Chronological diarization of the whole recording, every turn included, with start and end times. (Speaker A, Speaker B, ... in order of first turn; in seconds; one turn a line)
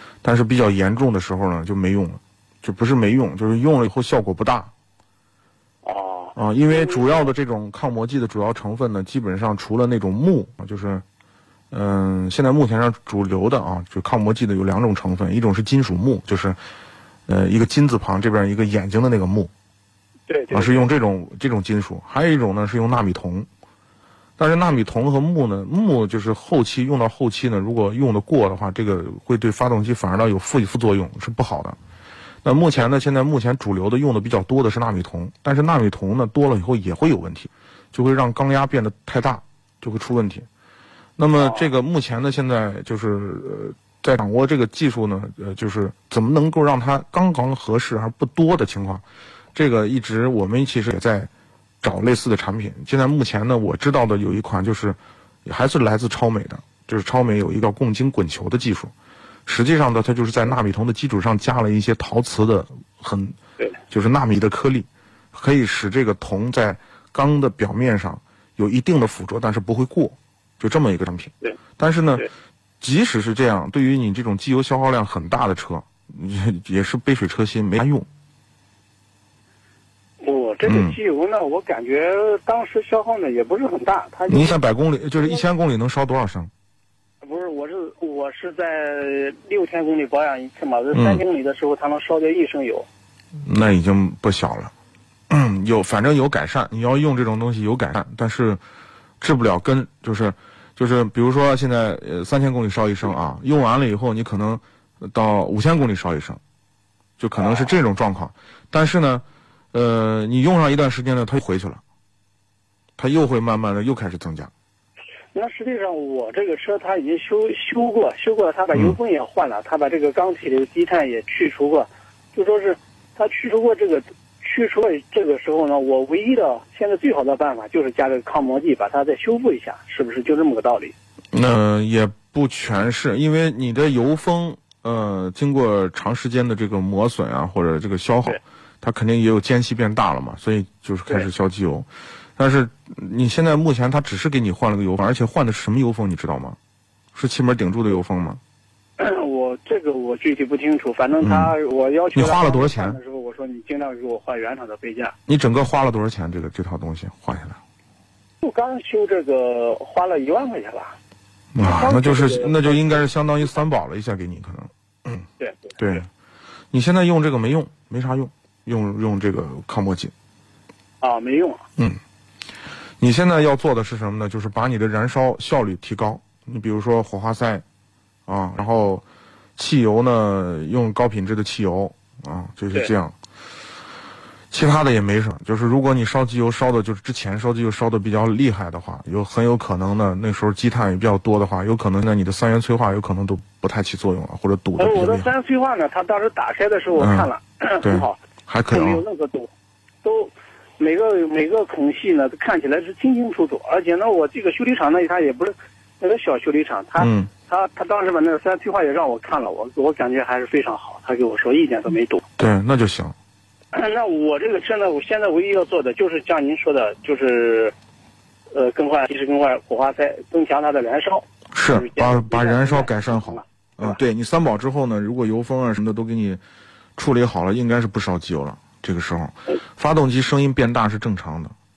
Speaker A: 0.2-4.7
Speaker B: 5.8-7.3
Speaker A: 6.3-11.0
Speaker A: 11.7-16.6
Speaker A: 17.3-19.5
Speaker B: 20.3-20.9
Speaker A: 20.5-23.5
Speaker A: 24.4-31.8
Speaker A: 32.4-40.5
Speaker A: 41.2-49.0
Speaker B: 41.3-41.7
Speaker A: 49.5-51.3
Speaker A: 51.8-58.9
Speaker A: 59.5-63.4
Speaker A: 63.9-72.3
Speaker A: 72.8-78.1
Speaker B: 80.2-84.6
Speaker A: 80.7-81.0
Speaker A: 84.3-86.5
Speaker B: 87.2-92.9
Speaker A: 90.9-91.2
Speaker A: 93.4-94.7
Speaker A: 95.3-98.6
Speaker A: 99.2-106.4
Speaker A: 107.2-111.8
Speaker B: 107.4-107.7
Speaker A: 113.0-114.5
Speaker B: 115.3-130.9
Speaker A: 131.3-146.6
Speaker A: 147.1-148.4
Speaker B: 149.0-155.1
Speaker A: 151.2-151.6
Speaker A: 152.1-153.0
Speaker A: 155.3-157.6
Speaker B: 158.4-161.0
Speaker A: 161.5-165.2
Speaker B: 161.6-163.1
Speaker B: 165.4-166.0
Speaker A: 165.8-166.1
Speaker A: 166.7-170.1
Speaker B: 171.0-171.6
Speaker A: 173.0-177.6
Speaker A: 178.3-179.0
Speaker A: 179.6-183.2
Speaker A: 184.5-195.3
Speaker B: 194.8-198.2
Speaker A: 196.9-197.3
Speaker A: 197.8-199.0
Speaker B: 198.7-199.5
Speaker B: 200.0-212.2
Speaker A: 207.0-207.3
Speaker A: 212.4-213.1
Speaker B: 213.7-217.7
Speaker B: 218.5-224.0
Speaker A: 221.5-226.4
Speaker A: 227.0-231.5